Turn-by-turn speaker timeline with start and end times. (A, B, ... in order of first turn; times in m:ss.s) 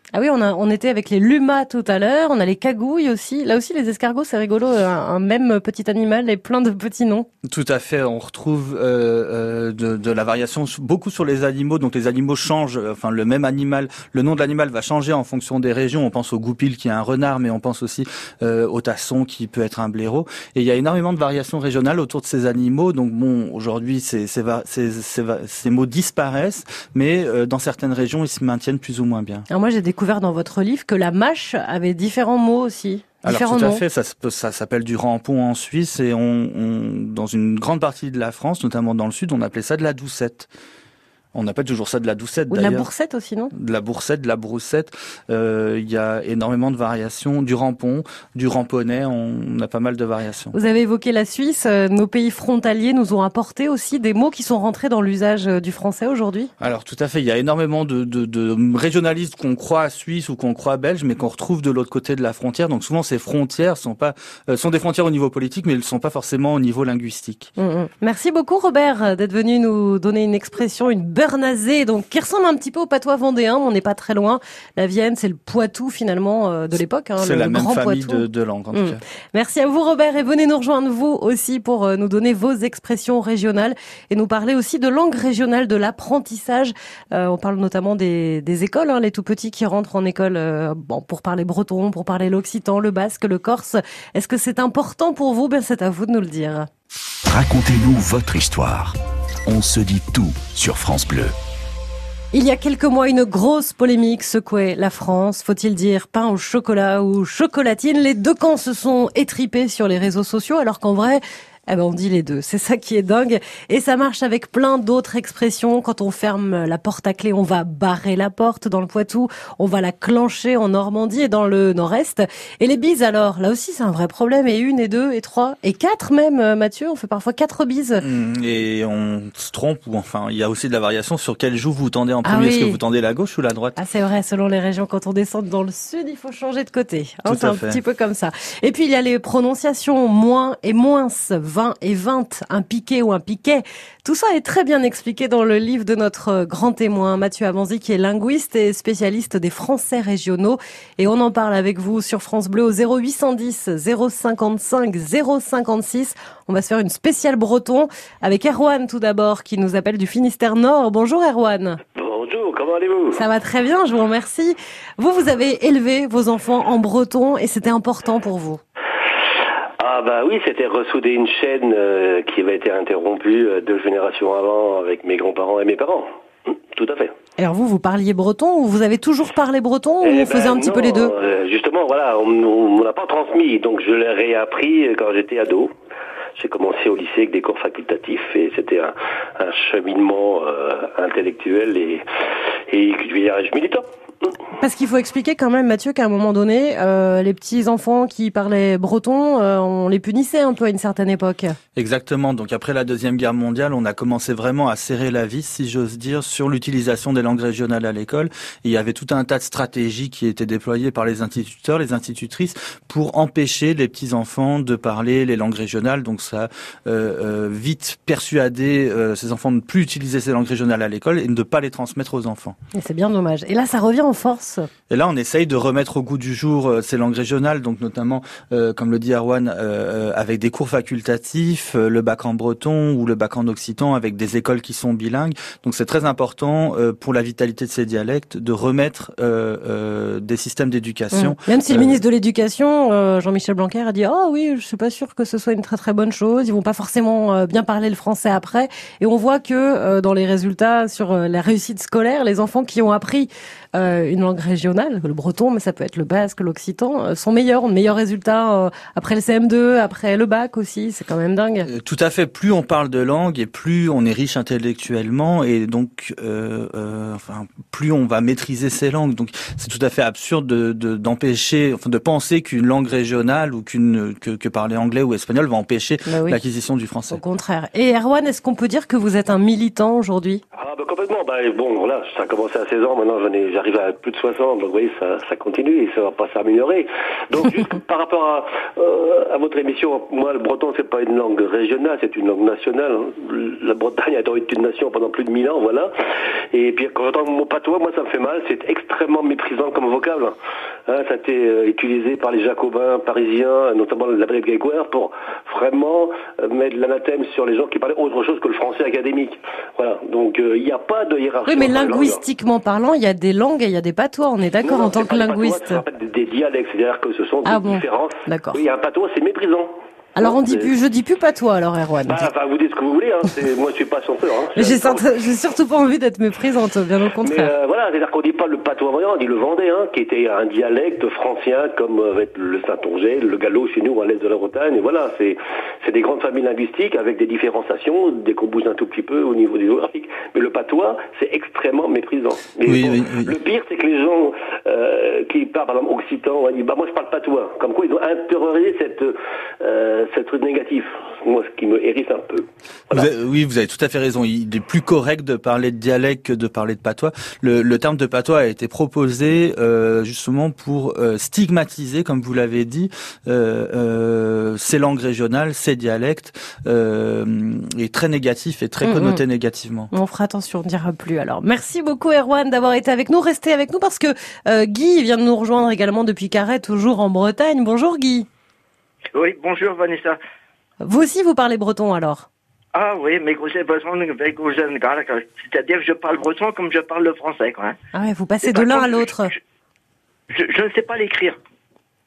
0:00.1-0:07.3 A
0:07.4-0:29.5 B
0:29.5-0:33.8 A
0:33.2-0:40.5 B
0:41.3-0:42.9 B
0:42.5-0:43.5 A
0:43.5-0:50.6 B
0:50.5-0:56.5 A
0:56.6-1:07.5 B
1:07.6-1:36.7 A
1:17.2-1:19.0 B
1:37.3-1:41.3 C
1:42.3-2:08.0 A
2:08.0-2:13.8 B
2:12.2-2:12.8 A
2:13.8-2:41.8 A
2:17.3-2:17.8 B
2:42.0-2:43.2 D
2:43.1-2:48.6 A
2:49.8-2:56.1 D
2:56.7-2:57.1 D
2:57.4-3:01.1 A
3:00.0-3:05.7 D
3:06.4-3:12.0 D
3:12.7-3:13.9 D
3:14.6-3:21.6 A
3:21.8-3:42.6 B
3:42.7-3:44.7 A
3:44.9-4:02.0 B
4:01.1-4:21.7 A
4:21.7-4:37.2 B
4:36.1-4:36.4 A
4:37.1-4:40.4 A
4:40.6-4:55.9 D
4:56.5-5:00.4 D
5:00.9-5:12.2 D
5:11.5-5:15.8 A
5:14.6-5:20.7 D
5:17.4-5:18.6 A
5:20.2-5:22.3 A
5:22.1-5:25.1 D
5:24.6-5:27.5 A
5:27.2-5:53.1 D
5:42.6-5:43.3 B
5:52.9-6:09.9 B
6:08.8-6:09.2 A
6:09.9-6:18.3 A
6:19.1-6:20.2 E
6:20.8-6:22.3 A
6:22.7-6:27.8 E
6:27.9-6:29.3 A
6:28.4-6:29.4 E
6:30.3-6:31.4 E